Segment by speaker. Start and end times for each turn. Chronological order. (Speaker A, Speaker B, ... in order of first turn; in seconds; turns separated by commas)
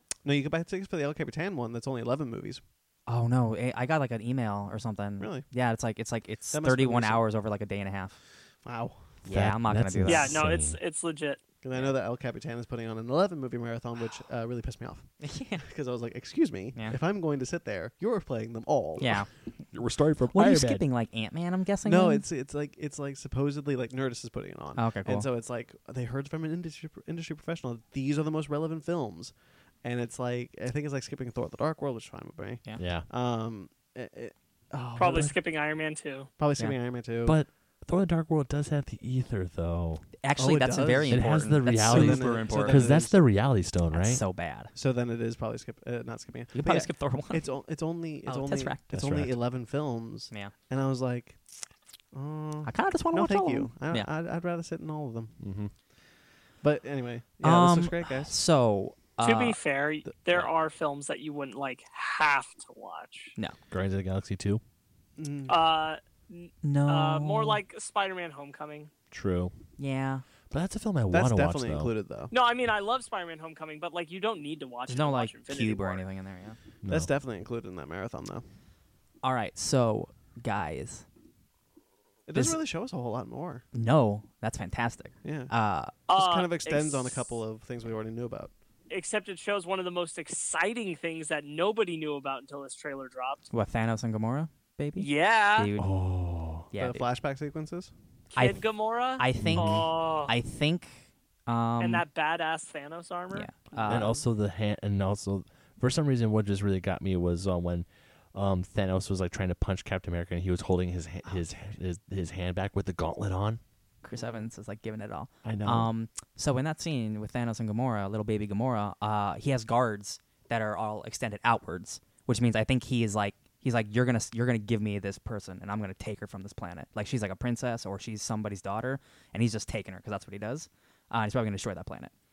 Speaker A: 0.2-2.6, Speaker B: 3.1-8.2, Speaker A: 5.2-5.5, Speaker A: 6.5-7.2, Speaker A: 8.6-9.0, Speaker B: 9.2-10.4, Speaker C: 9.2-10.8, Speaker D: 10.1-11.4, Speaker A: 11.6-19.2, Speaker B: 15.2-15.6, Speaker B: 19.0-19.3, Speaker C: 19.7-20.9, Speaker B: 20.3-22.2, Speaker A: 21.9-35.4, Speaker B: 24.8-25.3, Speaker C: 32.8-33.1, Speaker D: 35.0-36.3, Speaker A: 36.4-37.4, Speaker C: 37.2-40.1, Speaker B: 40.2-43.0, Speaker A: 40.4-43.2, Speaker C: 41.1-44.2, Speaker B: 43.9-44.7, Speaker A: 44.7-51.4, Speaker B: 46.5-47.5, Speaker B: 48.3-48.8, Speaker C: 48.9-49.4, Speaker A: 52.1-55.4, Speaker B: 52.6-54.1, Speaker C: 55.4-55.7, Speaker A: 56.6-58.4, Speaker B: 57.4-59.6, Speaker D: 59.2-63.3, Speaker C: 63.7-64.6, Speaker A: 65.2-65.5, Speaker D: 65.5-68.9, Speaker B: 66.6-67.6, Speaker C: 69.1-69.5, Speaker B: 69.8-70.2, Speaker C: 70.5-71.9, Speaker A: 71.1-72.3, Speaker D: 72.3-76.0, Speaker B: 74.9-76.6, Speaker C: 76.8-77.1, Speaker A: 76.9-78.4, Speaker B: 79.2-81.1, Speaker A: 82.3-83.7, Speaker B: 83.7-85.9, Speaker A: 85.2-85.5, Speaker D: 86.1-87.3, Speaker A: 86.1-88.5, Speaker D: 88.9-93.5, Speaker B: 93.5-95.9, Speaker D: 95.0-95.7, Speaker C: 95.8-96.7, Speaker B: 96.7-97.1, Speaker A: 96.8-97.9, Speaker B: 98.3-98.6, Speaker D: 98.3-100.3, Speaker B: 99.2-102.0, Speaker C: 99.4-99.9, Speaker D: 101.8-103.5, Speaker B: 103.3-104.2, Speaker A: 103.8-104.2, Speaker C: 103.9-113.6, Speaker B: 114.0-132.1, Speaker A: 114.1-114.5, Speaker C: 115.4-115.9